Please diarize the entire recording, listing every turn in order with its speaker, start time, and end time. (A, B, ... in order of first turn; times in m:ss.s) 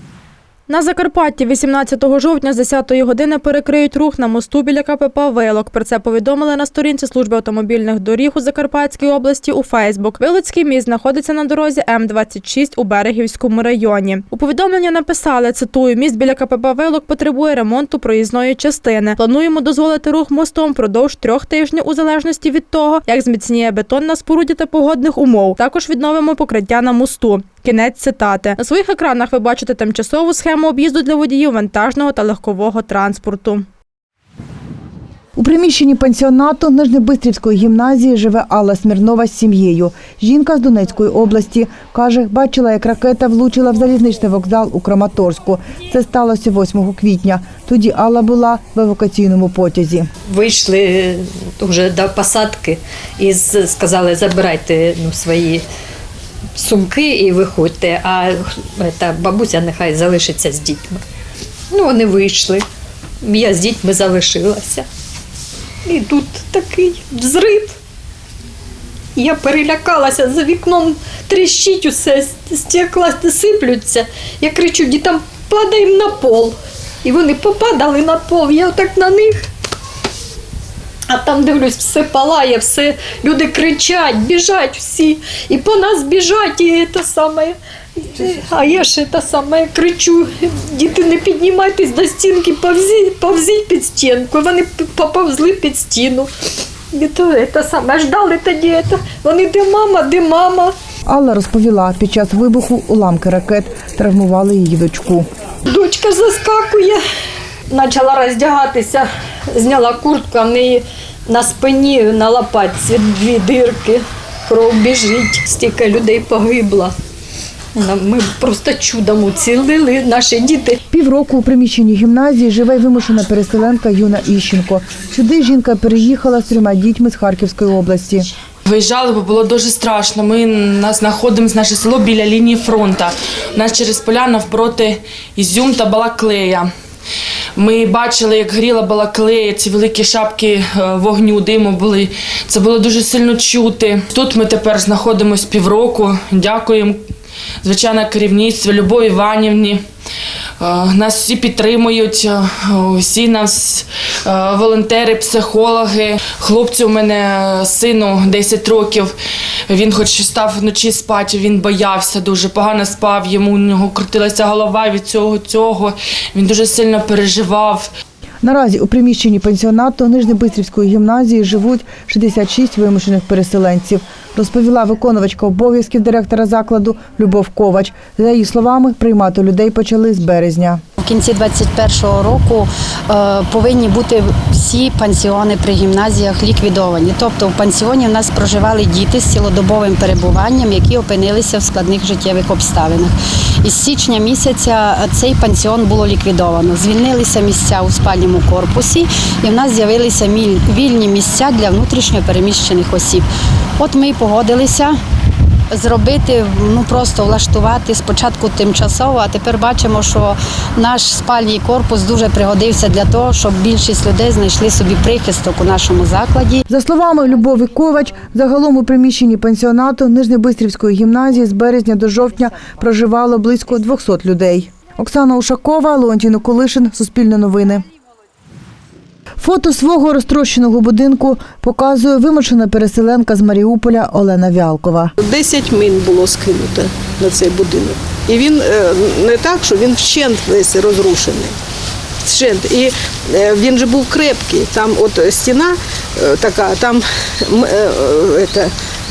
0:00.7-0:33.7 A
0:35.4-0:50.1 B
0:50.2-0:55.6 C
0:56.6-1:01.0 C
1:01.7-1:02.6 C
1:03.2-1:04.9 C
1:05.8-1:07.8 C
1:09.2-1:19.4 C
1:21.1-1:36.3 C
1:36.9-1:40.7 C
1:41.1-1:45.3 B
1:45.7-1:47.0 C
1:47.7-1:56.9 C
1:57.7-2:00.8 C
2:00.9-2:08.3 B
2:08.7-2:16.7 D
2:17.6-2:27.0 D
2:27.6-2:29.8 D
2:30.6-2:39.1 D
2:39.7-2:47.9 D
2:48.4-3:00.8 B
3:01.0-3:23.2 E
3:23.8-3:25.0 E
3:25.7-3:36.6 E
3:36.7-3:47.8 B
3:49.4-3:55.1 B
3:55.2-4:01.6 F
4:02.2-4:08.7 F